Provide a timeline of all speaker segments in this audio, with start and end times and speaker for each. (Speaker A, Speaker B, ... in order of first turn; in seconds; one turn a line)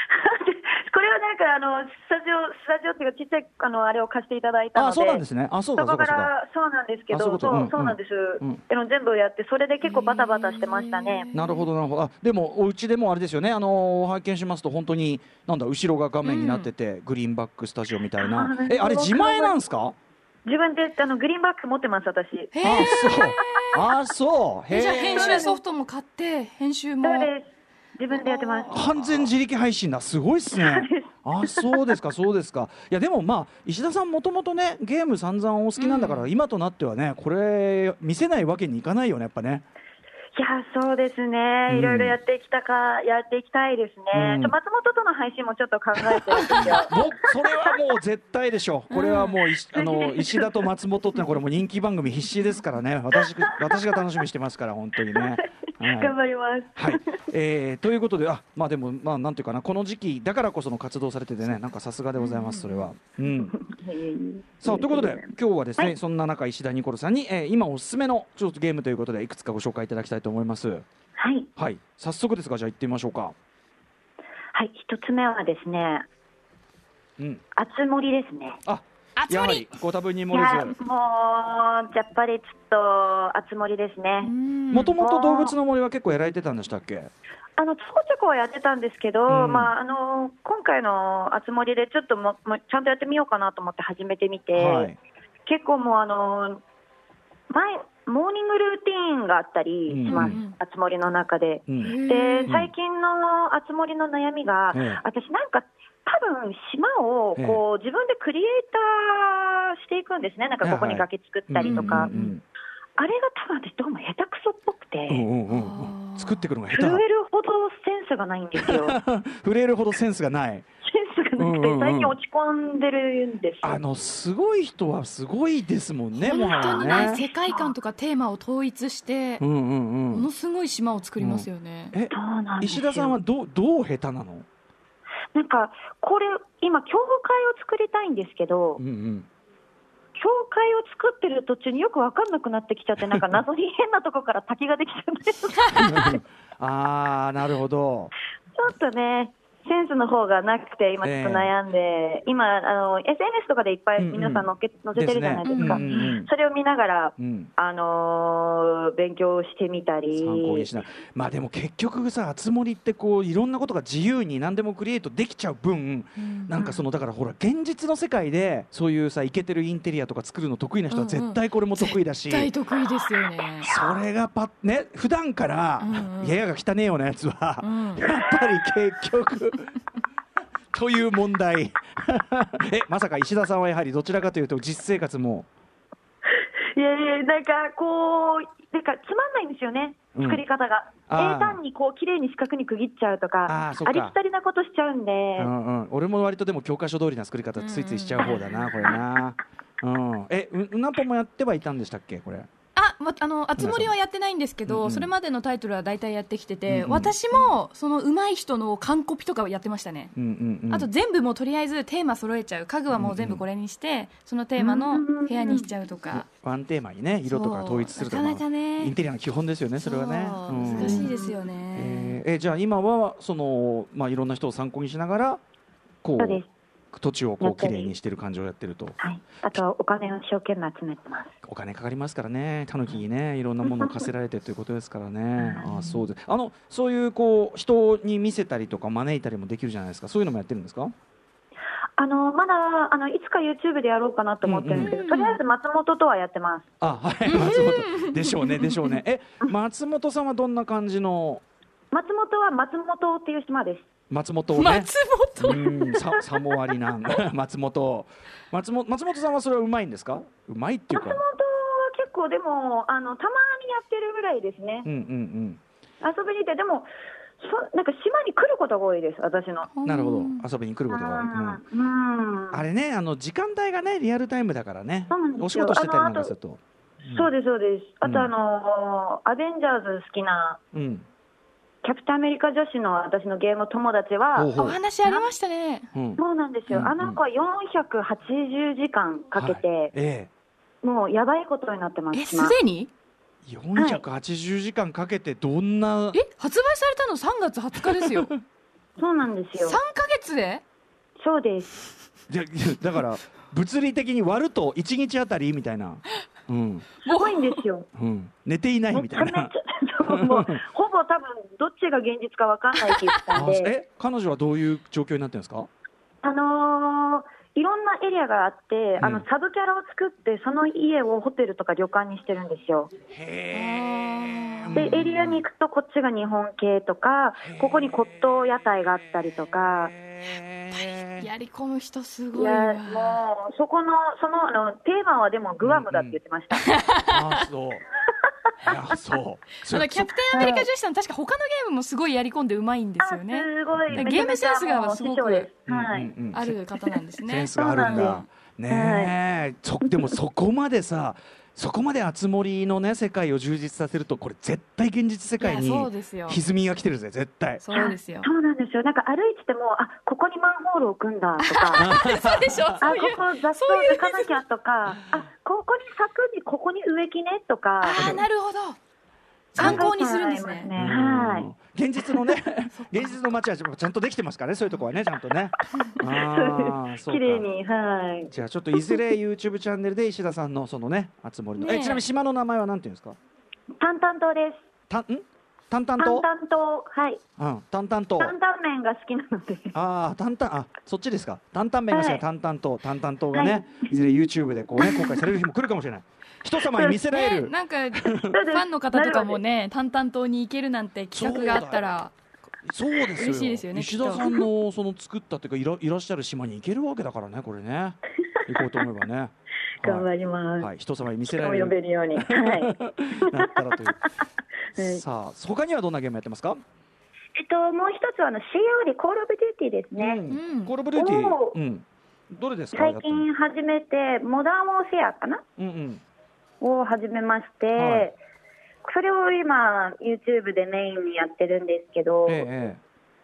Speaker A: 0.1-5.2
Speaker B: 4.8-6.3
Speaker A: 5.8-11.3
Speaker B: 7.1-8.6
Speaker C: 9.8-11.7
Speaker B: 11.3-20.0
Speaker C: 16.2-16.7
Speaker A: 18.2-19.6
Speaker A: 20.4-23.7
Speaker C: 22.5-23.8
Speaker B: 22.6-25.4
Speaker C: 24.7-27.3
Speaker A: 24.8-25.6
Speaker A: 27.0-28.8
Speaker C: 28.1-29.2
Speaker B: 28.7-39.7
Speaker A: 30.6-31.9
Speaker C: 35.8-36.3
Speaker A: 40.4-47.0
Speaker B: 41.7-42.2
Speaker B: 44.1-44.6
Speaker B: 46.0-56.2
Speaker C: 48.9-49.4
Speaker A: 49.7-50.5
Speaker A: 53.2-54.0
Speaker A: 55.1-57.2
Speaker B: 56.8-63.5
Speaker C: 62.2-62.9
Speaker A: 63.2-66.0
Speaker B: 64.6-70.8
Speaker A: 71.2-71.5
Speaker B: 71.6-73.3
Speaker A: 74.5-76.0
Speaker A: 77.5-78.6
Speaker B: 78.7-80.7
Speaker C: 79.2-79.7
Speaker A: 80.3-84.3
Speaker C: 84.2-85.0
Speaker B: 84.7-87.1
Speaker A: 85.0-85.6
Speaker A: 87.6-94.9
Speaker B: 89.3-89.7
Speaker B: 94.5-95.0
Speaker A: 95.5-96.6
Speaker A: 97.5-112.1
Speaker B: 99.9-100.4
Speaker C: 100.1-100.5
Speaker B: 101.7-101.9
Speaker C: 101.8-102.5
Speaker B: 102.5-102.7
Speaker B: 104.7-105.0
Speaker B: 107.4-107.6
Speaker B: 110.6-112.4
Speaker C: 111.6-112.3
Speaker A: 113.0-115.3
Speaker B: 115.1-117.0
Speaker C: 115.5-116.5
Speaker A: 116.7-119.0
Speaker B: 118.6-120.7
Speaker A: 120.8-123.8
Speaker B: 121.4-122.2
Speaker B: 123.6-127.2
Speaker C: 126.2-129.4
Speaker A: 126.6-127.7
Speaker B: 129.4-130.3
Speaker C: 130.1-131.9
Speaker B: 131.2-134.5
Speaker A: 132.1-133.2
Speaker A: 135.3-138.8
Speaker B: 138.8-139.3
Speaker A: 140.2-146.2
Speaker B: 143.0-143.4
Speaker B: 145.7-148.1
Speaker A: 148.6-160.7
Speaker B: 151.0-151.5
Speaker B: 154.0-156.3
Speaker C: 155.5-156.1
Speaker B: 157.2-157.5
Speaker B: 160.1-172.5
Speaker C: 166.2-166.8
Speaker C: 170.9-173.8
Speaker B: 173.6-179.7
Speaker C: 175.8-176.4
Speaker C: 177.6-178.1
Speaker A: 178.2-178.6
Speaker B: 180.7-185.5
Speaker A: 186.4-195.5
Speaker B: 190.2-190.4
Speaker B: 191.1-191.6
Speaker B: 193.5-194.2
Speaker B: 195.4-202.5
Speaker C: 197.6-199.0
Speaker C: 202.8-210.1
Speaker B: 203.6-203.9
Speaker B: 204.7-205.1
Speaker B: 206.7-207.2
Speaker B: 210.2-210.9
Speaker C: 210.7-216.2
Speaker B: 212.9-213.4
Speaker A: 214.6-215.7
Speaker B: 216.1-221.1
Speaker C: 217.3-218.9
Speaker C: 219.8-222.2
Speaker A: 220.7-221.3
Speaker B: 221.7-225.4
Speaker B: 226.0-226.4
Speaker A: 226.2-226.5
Speaker B: 226.9-229.0
Speaker A: 227.4-227.9
Speaker A: 229.0-231.3
Speaker B: 231.4-240.9
Speaker A: 235.4-236.1
Speaker A: 242.0-246.7
Speaker B: 244.4-244.9
Speaker C: 244.8-245.4
Speaker B: 246.8-251.4
Speaker C: 247.3-249.0
Speaker A: 251.9-253.9
Speaker B: 254.1-261.2
Speaker C: 254.6-255.8
Speaker A: 255.9-256.3
Speaker A: 260.9-264.9
Speaker B: 264.9-265.6
Speaker A: 266.0-269.7
Speaker C: 269.7-270.5
Speaker B: 269.8-271.6
Speaker A: 270.9-272.6
Speaker B: 272.5-277.3
Speaker A: 275.1-276.3
Speaker A: 277.1-280.6
Speaker B: 278.0-278.3
Speaker B: 280.7-281.1
Speaker A: 281.8-285.3
Speaker B: 284.4-284.8
Speaker C: 284.6-285.9
Speaker B: 285.9-287.2
Speaker A: 286.2-289.9
Speaker B: 289.4-290.3
Speaker A: 290.8-292.6
Speaker C: 292.1-292.9
Speaker B: 293.5-296.2
Speaker A: 293.8-294.0
Speaker C: 296.1-298.4
Speaker B: 297.9-298.2
Speaker A: 299.0-299.8
Speaker C: 299.6-300.6
Speaker A: 301.2-301.8
Speaker B: 302.3-306.9
Speaker C: 307.0-307.6
Speaker A: 307.1-307.9
Speaker B: 307.9-309.5
Speaker A: 308.9-313.8
Speaker B: 310.1-310.6
Speaker B: 313.3-315.7
Speaker A: 316.2-322.9
Speaker B: 319.0-319.2
Speaker B: 323.1-325.4
Speaker C: 323.5-325.0
Speaker A: 324.8-329.9
Speaker B: 327.4-328.2
Speaker B: 329.5-331.3
Speaker C: 330.7-333.2
Speaker A: 332.3-336.6
Speaker B: 335.6-336.2
Speaker C: 336.6-337.2
Speaker B: 337.1-337.8
Speaker B: 338.6-340.1
Speaker C: 339.7-345.5
Speaker A: 340.3-340.7
Speaker A: 343.0-346.1
Speaker B: 343.8-344.1
Speaker B: 345.7-346.6
Speaker C: 346.3-348.2
Speaker B: 347.3-357.6
Speaker A: 347.5-349.2
Speaker C: 355.4-356.4
Speaker C: 357.6-358.3
Speaker A: 357.7-361.9
Speaker C: 361.4-364.4
Speaker B: 361.8-362.8
Speaker A: 362.8-368.1
Speaker C: 367.8-368.8
Speaker B: 368.0-368.2
Speaker C: 369.5-370.7
Speaker A: 369.6-371.5
Speaker B: 369.6-369.9
Speaker B: 370.8-377.5
Speaker C: 372.7-373.2
Speaker A: 376.0-379.0
Speaker B: 378.3-383.2
Speaker C: 381.6-382.1
Speaker A: 383.8-384.6
Speaker B: 384.9-386.3
Speaker A: 386.0-387.2
Speaker B: 387.4-388.4
Speaker A: 388.2-389.8
Speaker B: 389.7-398.3
Speaker A: 391.9-392.2
Speaker A: 393.3-395.2
Speaker A: 396.6-397.0
Speaker C: 397.1-402.1
Speaker A: 398.3-399.4
Speaker B: 401.1-401.8
Speaker B: 402.6-410.1
Speaker C: 403.1-404.3
Speaker A: 409.8-410.7
Speaker B: 410.6-414.0
Speaker A: 411.3-413.8
Speaker A: 414.8-415.0
Speaker B: 414.8-416.6
Speaker A: 417.4-420.2
Speaker B: 420.0-423.3
Speaker C: 420.3-420.7
Speaker A: 420.9-421.6
Speaker A: 422.7-425.4
Speaker B: 425.6-426.0
Speaker A: 426.6-428.2
Speaker B: 427.8-428.1
Speaker A: 428.8-432.5
Speaker B: 432.3-432.8